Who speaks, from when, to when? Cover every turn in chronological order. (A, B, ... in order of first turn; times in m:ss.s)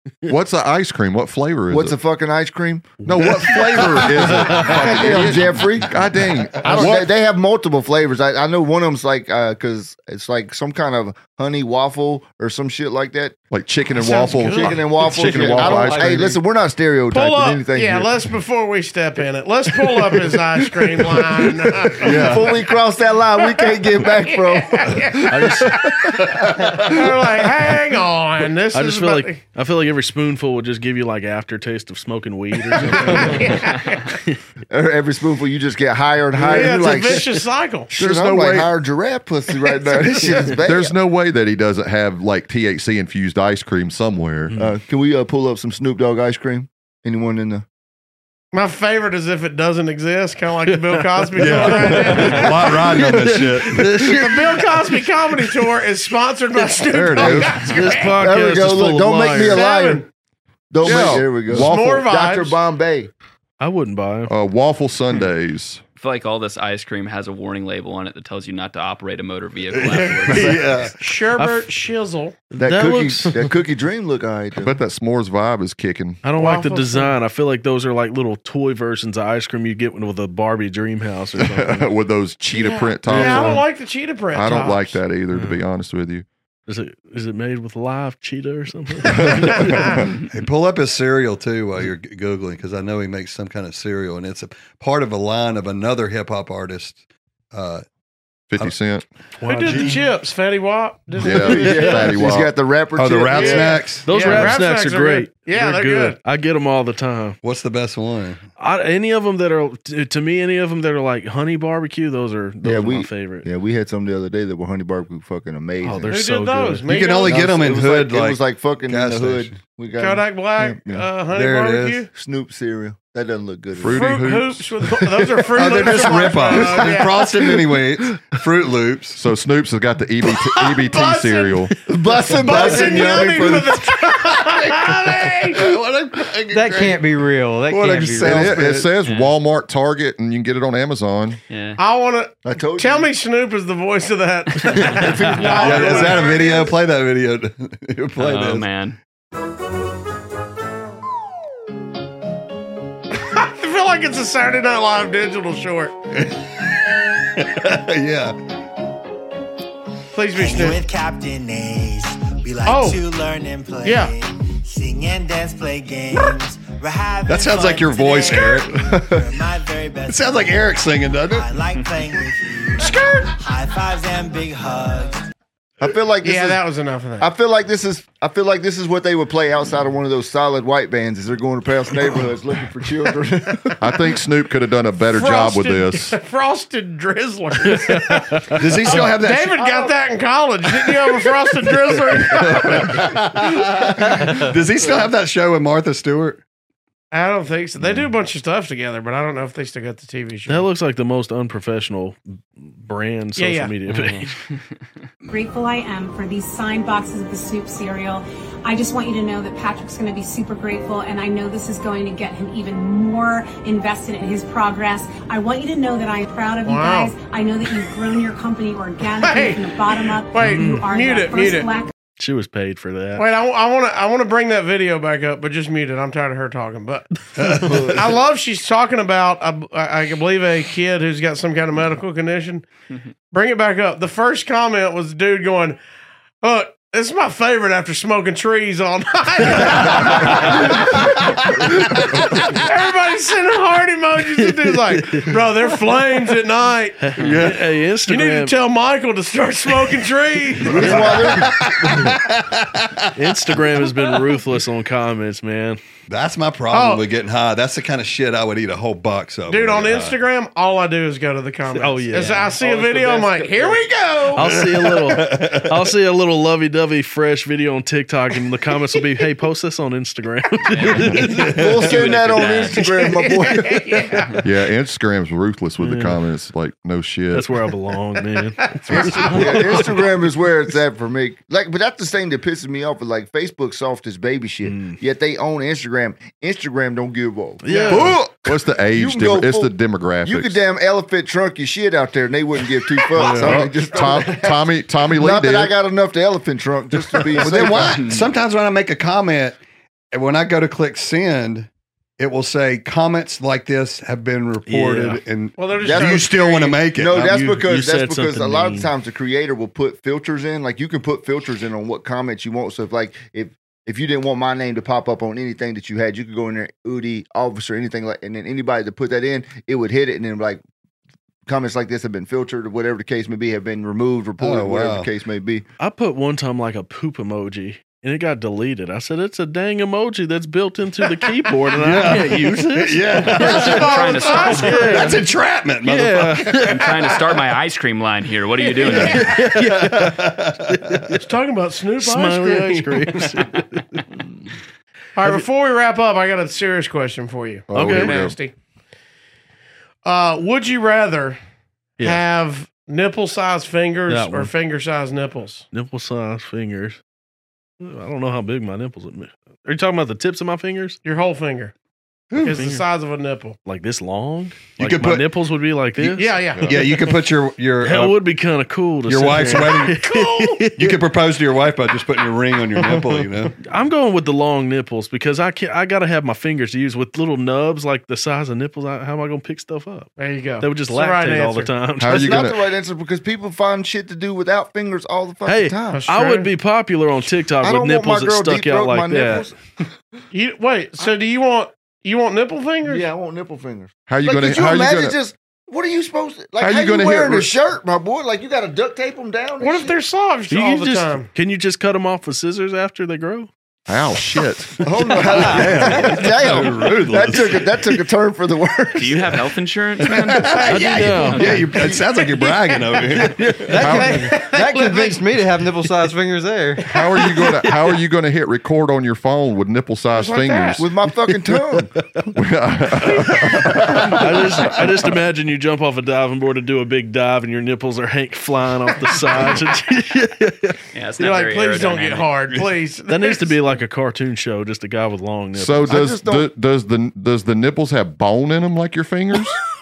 0:00.3-0:02.0 A
0:01.7-0:03.0 B
0:03.0-0:07.1 A
0:03.2-0:05.0 C
0:03.5-0:05.1 D
0:04.3-0:05.9 B
0:06.6-0:06.9 E
0:06.6-0:13.4 B
0:13.5-0:16.3 A
0:14.0-0:14.8 E
0:14.5-0:18.1 B
0:15.2-0:16.3 F
0:17.1-0:22.4 E
0:21.1-0:27.1 B
0:22.0-0:22.5 D
0:23.4-0:29.4 E
0:25.3-0:25.8 C
0:28.7-0:33.6 C
0:32.7-0:34.2 E
0:33.1-0:33.4 B
0:34.7-0:40.9 B
0:36.4-0:38.0 E
0:36.4-0:37.1 C
0:38.0-0:38.6 A
0:39.5-0:40.6 E
0:40.6-0:44.6 A
0:44.6-0:47.6 B
0:48.5-0:53.0 E
0:50.7-0:54.9 C
0:51.4-0:54.0 D
0:54.0-0:58.2 E
0:57.0-0:57.4 D
0:57.0-0:57.7 A
0:57.6-0:59.6 C
0:58.2-1:00.0 B
0:59.4-1:00.1 E
1:00.7-1:03.1 B
1:00.8-1:02.0 A
1:01.5-1:02.6 E
1:03.6-1:04.3 C
1:04.3-1:05.8 A
1:06.0-1:10.7 G
1:09.7-1:11.0 D
1:11.0-1:12.4 E
1:11.4-1:11.6 C
1:12.5-1:13.5 C
1:12.6-1:14.8 B
1:14.6-1:16.2 A
1:16.2-1:21.9 C
1:16.4-1:17.1 E
1:21.4-1:23.7 A
1:22.5-1:25.0 E
1:23.1-1:23.6 C
1:24.3-1:26.2 A
1:25.3-1:25.6 C
1:26.7-1:30.0 C
1:29.1-1:30.0 A
1:29.2-1:30.0 E
1:30.1-1:37.0 D
1:37.5-1:37.8 D
1:38.5-1:39.0 A
1:39.4-1:40.1 C
1:39.4-1:42.3 E
1:39.7-1:40.0 D
1:41.2-1:42.5 A
1:41.2-1:43.8 B
1:43.0-1:44.6 D
1:43.3-1:46.2 E
1:44.0-1:47.4 C
1:47.4-1:48.4 D
1:48.6-1:53.4 C
1:52.6-1:56.2 B
1:55.8-1:56.8 C
1:56.1-1:57.5 E
1:56.9-1:59.6 D
1:57.2-2:01.1 B
2:00.0-2:02.1 E
2:01.3-2:02.0 D
2:02.1-2:04.1 B
2:03.8-2:04.7 A
2:03.9-2:07.3 E
2:05.6-2:09.2 D
2:05.8-2:06.1 B
2:09.1-2:11.8 A
2:10.4-2:11.7 E
2:11.9-2:13.8 B
2:12.2-2:15.7 E
2:12.4-2:17.1 D
2:16.5-2:18.7 F
2:17.6-2:18.9 D
2:18.2-2:21.4 A
2:19.0-2:19.3 G
2:21.5-2:21.8 G
2:21.8-2:26.7 E
2:22.4-2:23.1 B
2:24.6-2:26.0 G
2:25.0-2:28.7 D
2:28.2-2:29.0 G
2:33.1-2:35.9 E
2:36.1-2:36.5 D
2:37.2-2:38.4 D
2:40.1-2:40.8 E
2:40.3-2:50.7 H
2:42.7-2:43.0 E
2:43.8-2:44.1 E
2:47.3-2:49.2 D
2:50.1-2:51.5 D
2:51.3-2:55.3 H
2:55.8-2:56.6 B
2:56.2-2:57.3 E
2:57.2-3:03.9 B
3:03.8-3:06.2 A
3:05.0-3:13.3 E
3:07.7-3:08.6 C
3:08.6-3:09.6 D
3:12.5-3:16.4 D
3:17.1-3:20.7 E
3:20.5-3:24.4 C
3:23.4-3:23.7 E
3:23.9-3:24.3 D
3:25.3-3:41.9 I
3:36.6-3:37.1 E
3:39.1-3:41.7 E
3:40.4-3:40.9 C
3:42.2-3:43.2 C
3:43.2-3:52.7 E
3:47.4-3:48.0 D
3:53.3-3:55.8 E
3:56.4-4:07.5 E
4:04.4-4:05.4 C
4:07.0-4:08.6 C
4:07.2-4:07.6 D
4:08.1-4:11.3 E
4:10.6-4:12.0 B
4:10.7-4:13.6 D
4:10.7-4:11.4 C
4:13.1-4:15.8 C
4:16.1-4:20.2 D
4:16.7-4:17.0 E
4:19.5-4:24.5 E
4:21.7-4:23.8 C
4:24.3-4:31.5 C
4:24.4-4:25.9 D
4:30.7-4:32.9 G
4:31.1-4:31.4 E
4:31.4-4:31.8 D
4:31.5-4:33.8 B
4:32.8-4:34.4 E
4:34.4-4:37.6 A
4:35.8-4:36.2 C
4:37.3-4:40.1 C
4:38.8-4:39.7 E
4:38.9-4:58.1 B
4:44.6-4:45.0 C
4:47.6-4:48.2 C
4:47.7-4:48.1 E
4:48.0-4:50.6 A
4:53.2-4:53.7 C
4:53.3-4:53.6 D
4:53.3-4:55.7 A
4:57.4-4:59.6 D
4:57.7-4:58.3 G
5:00.1-5:07.4 D
5:04.7-5:05.2 C
5:05.6-5:06.8 E
5:05.8-5:06.3 B
5:06.9-5:20.6 B
5:07.1-5:08.9 C
5:21.5-5:25.6 B
5:24.4-5:25.1 D
5:25.8-5:35.3 C
5:31.8-5:36.7 D
5:33.2-5:35.1 G
5:33.4-5:35.2 E
5:35.8-5:37.2 C
5:36.6-5:39.4 G
5:38.6-5:39.4 E
5:38.9-5:41.2 C
5:39.2-5:41.1 D
5:41.1-5:43.0 E
5:42.0-5:44.0 C
5:45.2-5:48.5 E
5:47.7-5:48.4 A
5:47.7-5:48.2 C
5:50.0-5:51.4 E
5:52.0-5:55.6 E
5:54.1-5:54.5 C
5:55.7-5:57.0 C
5:57.8-6:01.0 C
6:01.0-6:01.7 E
6:02.3-6:02.6 D
6:02.4-6:03.6 E
6:02.5-6:02.8 C
6:03.7-6:06.4 C
6:04.8-6:05.3 D
6:06.0-6:07.1 E
6:06.5-6:06.8 A
6:06.7-6:08.2 D
6:07.8-6:11.0 C
6:09.1-6:10.0 D
6:09.6-6:10.7 E
6:10.8-6:13.6 D
6:13.6-6:22.5 C
6:20.2-6:21.7 E
6:22.0-6:22.6 A
6:22.1-6:26.0 B
6:25.5-6:29.5 C
6:25.9-6:26.5 E
6:27.6-6:30.2 B
6:30.3-6:33.0 E
6:32.8-6:39.9 B
6:34.1-6:35.2 A
6:36.6-6:37.5 A
6:39.6-6:41.3 E
6:40.5-6:43.5 C
6:43.9-6:44.8 A
6:44.1-6:44.9 C
6:44.8-6:49.4 B
6:45.2-6:47.7 D
6:45.3-6:46.4 F
6:49.0-6:51.9 G
6:50.0-6:53.7 D
6:50.6-6:52.0 C
6:53.1-6:54.2 C
6:53.5-6:57.1 F
6:53.8-6:54.4 A
6:54.3-6:55.2 E
6:56.9-7:00.9 A
6:56.9-6:58.0 C
7:00.2-7:00.8 E
7:00.8-7:01.9 B
7:01.9-7:02.3 C
7:02.3-7:04.7 A
7:03.1-7:03.6 E
7:03.4-7:10.8 C
7:10.9-7:12.3 G
7:11.2-7:13.6 E
7:13.1-7:16.0 C
7:15.5-7:19.6 A
7:15.9-7:16.5 B